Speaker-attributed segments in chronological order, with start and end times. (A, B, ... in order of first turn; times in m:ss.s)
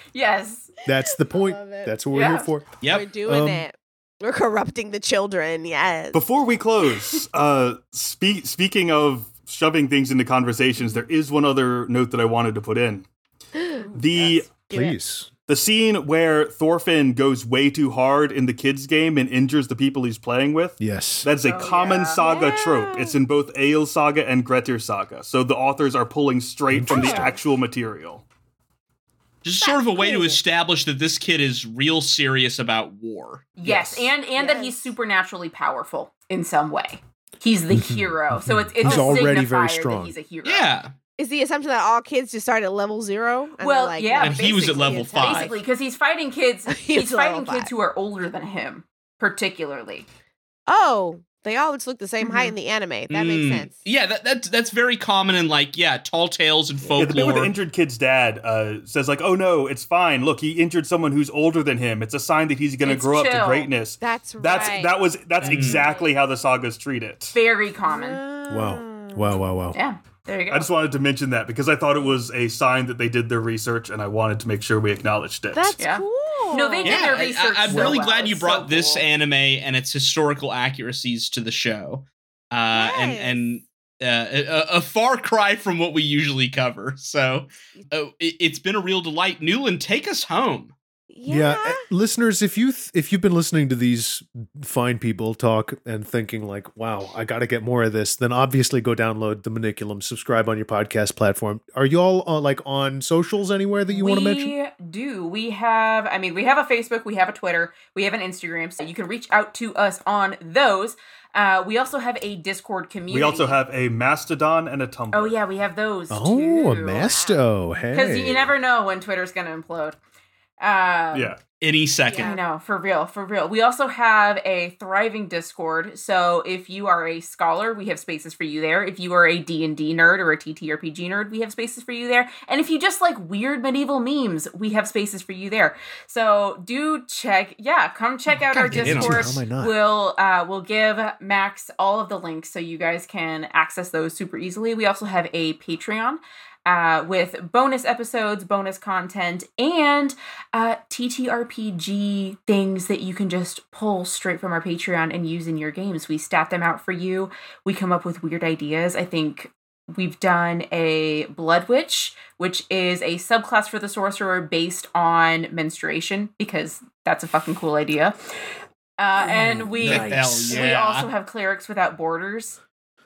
0:00.1-0:00.7 A
0:00.8-0:03.6 B
0:00.9-0:01.9 C
0:02.1-0:02.5 A
0:02.8-0:03.1 D
0:02.8-0:06.2 C
0:06.1-0:13.0 E
0:13.6-0:13.8 C
0:13.9-0:14.6 E
0:13.9-0:14.3 A
0:14.7-0:15.0 C
0:14.7-0:15.3 B
0:15.5-0:28.2 E
0:20.8-0:21.3 B
0:21.4-0:22.2 A
0:21.6-0:23.2 C
0:26.7-0:27.4 B
0:26.9-0:27.3 C
0:29.4-0:33.5 D
0:29.6-0:30.4 C
0:33.6-0:40.7 A
0:34.4-0:34.9 C
0:37.7-0:40.1 B
0:38.8-0:39.3 C
0:40.4-0:40.9 D
0:41.2-0:45.6 C
0:43.6-0:50.0 A
0:44.2-0:45.5 D
0:46.7-0:47.7 C
0:50.7-0:53.7 C
0:52.2-0:52.5 A
0:53.1-0:57.5 D
0:56.8-0:57.3 C
0:57.0-1:07.3 E
1:02.8-1:03.7 A
1:04.0-1:05.0 C
1:05.4-1:06.0 A
1:05.4-1:05.8 D
1:07.3-1:08.2 A
1:07.9-1:09.5 C
1:08.5-1:09.8 B
1:09.7-1:10.7 A
1:10.5-1:15.8 E
1:15.5-1:17.1 C
1:15.8-1:19.0 A
1:16.8-1:30.7 D
1:22.7-1:23.6 C
1:31.1-1:31.8 C
1:31.2-1:44.5 B
1:43.9-1:53.6 A
1:53.1-1:55.4 E
1:55.1-1:57.2 A
1:56.1-1:58.5 B
1:57.0-1:57.4 C
1:57.9-2:00.0 A
2:00.6-2:01.4 A
2:01.1-2:01.4 E
2:01.6-2:02.3 D
2:02.0-2:02.4 C
2:02.1-2:48.2 A
2:18.3-2:19.7 B
2:18.7-2:19.4 D
2:49.0-2:52.6 A
2:49.2-2:50.7 B
2:49.8-2:51.1 D